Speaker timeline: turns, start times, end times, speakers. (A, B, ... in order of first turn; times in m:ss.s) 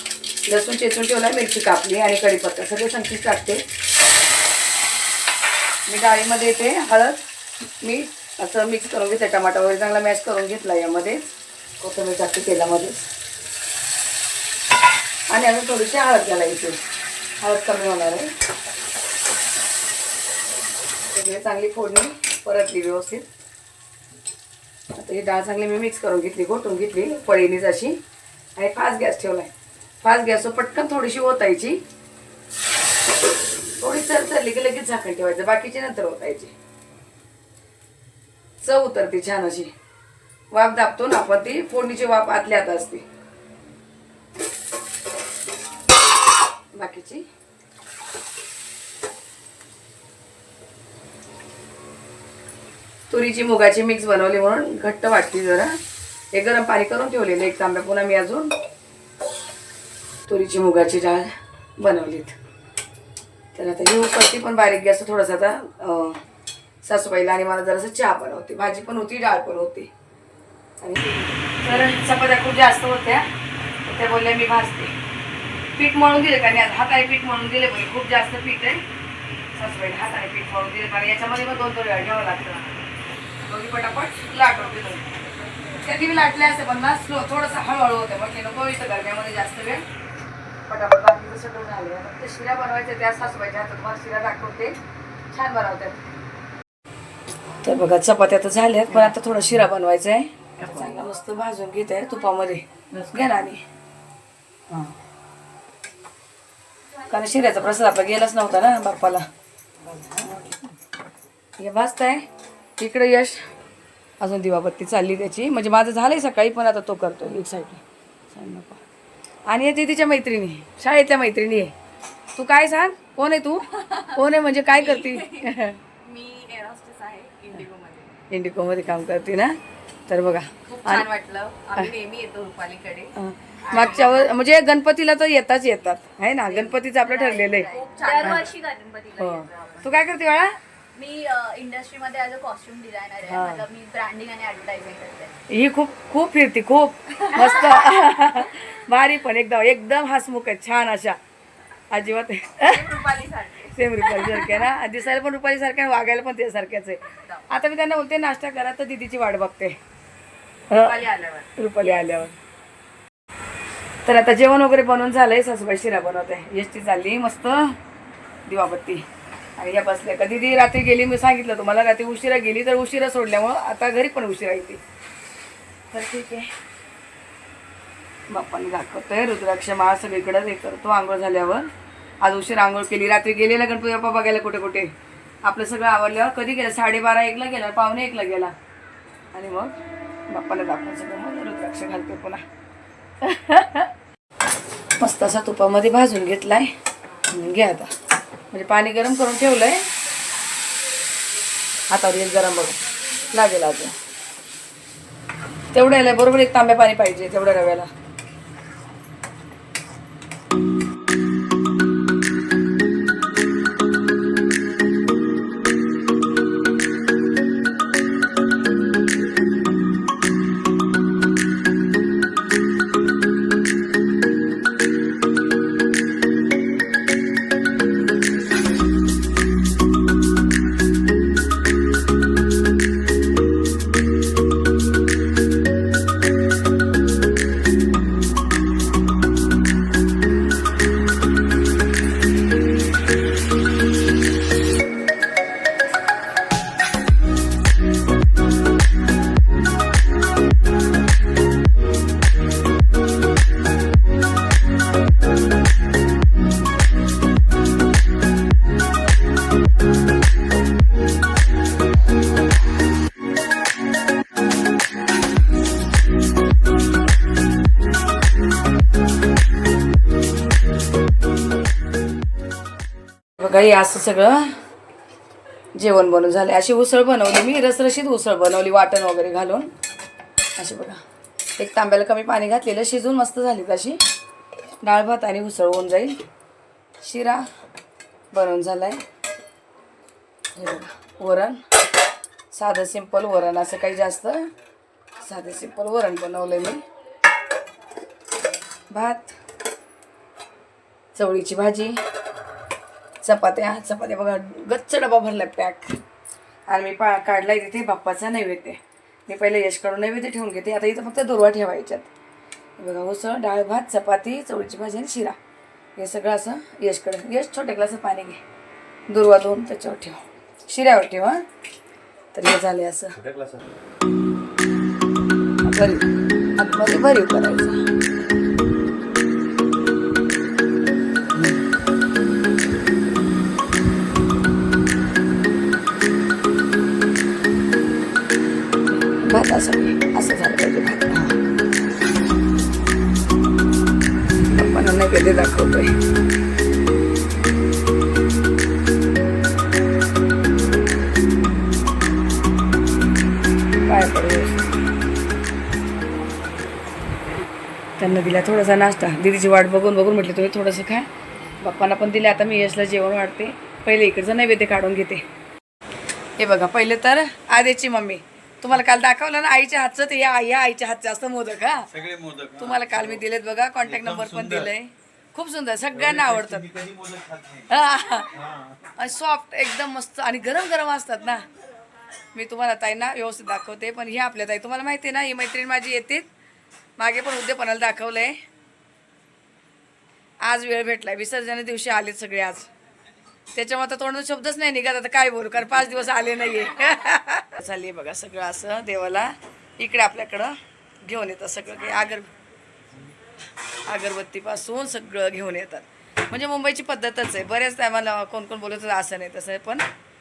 0:00.4-0:03.6 A
0:05.9-0:07.2 A
0:07.8-0:11.2 A
0:11.8-0:13.1 A
0:15.3-0:16.8 A
0:17.4-0:18.3 A
0:21.1-0:23.2 A
0:24.9-0:28.0 A
0:28.6-0:31.8 A
0:33.8-0:36.5 A
0:38.6-0:39.7 A
0:40.5-0:43.0 A
0:46.7-0:47.3 A
0:53.1-0:55.8 A
0:56.3-0:58.5 A
1:00.3-1:02.4 A
1:03.5-1:06.2 A
1:06.8-1:09.9 A
1:10.8-1:13.3 A
1:13.8-1:14.9 A
1:15.7-1:18.8 A
1:19.5-1:22.8 A
1:23.4-1:25.1 A
1:25.8-1:29.8 A
1:30.7-1:34.8 A
1:35.3-1:36.1 A
1:37.6-1:43.6 A
1:47.1-1:49.3 A
1:50.1-1:50.5 A
1:51.6-1:52.3 A
1:52.8-1:53.4 A
1:54.2-1:58.8 A
1:59.5-2:01.7 A
2:02.3-2:05.8 A
2:04.8-2:05.3 B
2:06.0-2:08.1 B
2:08.3-2:09.6 A
2:10.1-2:11.1 A
2:10.7-2:13.1 B
2:13.2-2:17.7 A
2:13.7-2:14.2 B
2:16.5-2:20.0 B
2:17.6-2:19.5 C
2:18.2-2:18.5 A
2:19.2-2:20.6 A
2:20.9-2:25.3 C
2:23.2-2:23.6 A
2:25.5-2:31.2 A
2:27.3-2:28.0 C
2:31.9-2:32.9 A
2:32.7-2:33.7 B
2:33.7-2:39.8 A
2:40.7-2:42.4 A
2:40.8-2:41.5 B
2:44.0-2:47.8 A
2:48.5-2:49.0 A
2:49.6-2:54.8 A
2:55.9-2:56.5 A
2:58.3-3:01.7 A
3:02.2-3:04.9 A
3:05.4-3:08.5 A
3:09.3-3:09.8 A
3:10.3-3:12.4 A
3:13.2-3:13.9 A
3:15.0-3:16.7 A
3:17.3-3:17.9 A
3:18.5-3:19.9 A
3:21.9-3:24.0 A
3:25.7-3:27.9 A
4:33.4-4:34.6 A
4:35.8-4:39.7 A
4:40.6-4:41.0 A
4:41.6-4:44.0 A
4:44.8-4:46.2 A
4:47.0-4:47.5 A
4:48.3-4:49.0 A
4:50.5-4:51.6 A
4:52.5-4:54.5 A
4:55.2-4:56.8 A
4:58.9-4:59.4 A
5:01.1-5:02.0 A
5:03.2-5:06.0 A
5:06.7-5:12.1 A
5:12.8-5:15.4 A
5:16.0-5:18.4 A
5:19.1-5:21.4 A
5:22.3-5:23.2 A
5:25.6-5:26.0 A
5:26.6-5:27.8 A
5:39.0-5:41.4 A
5:44.4-5:46.0 A
5:53.8-5:54.7 A
5:58.0-6:01.1 A
6:01.6-6:05.2 A
6:06.4-6:11.9 A
6:12.0-6:12.9 D
6:12.6-6:16.7 A
6:14.0-6:14.4 D
6:16.1-6:17.6 D
6:17.7-6:18.4 A
6:18.9-6:21.4 A
6:22.3-6:26.3 A
6:27.0-6:28.4 A
6:30.4-6:32.7 A
6:33.5-6:42.3 A
6:43.7-6:49.8 A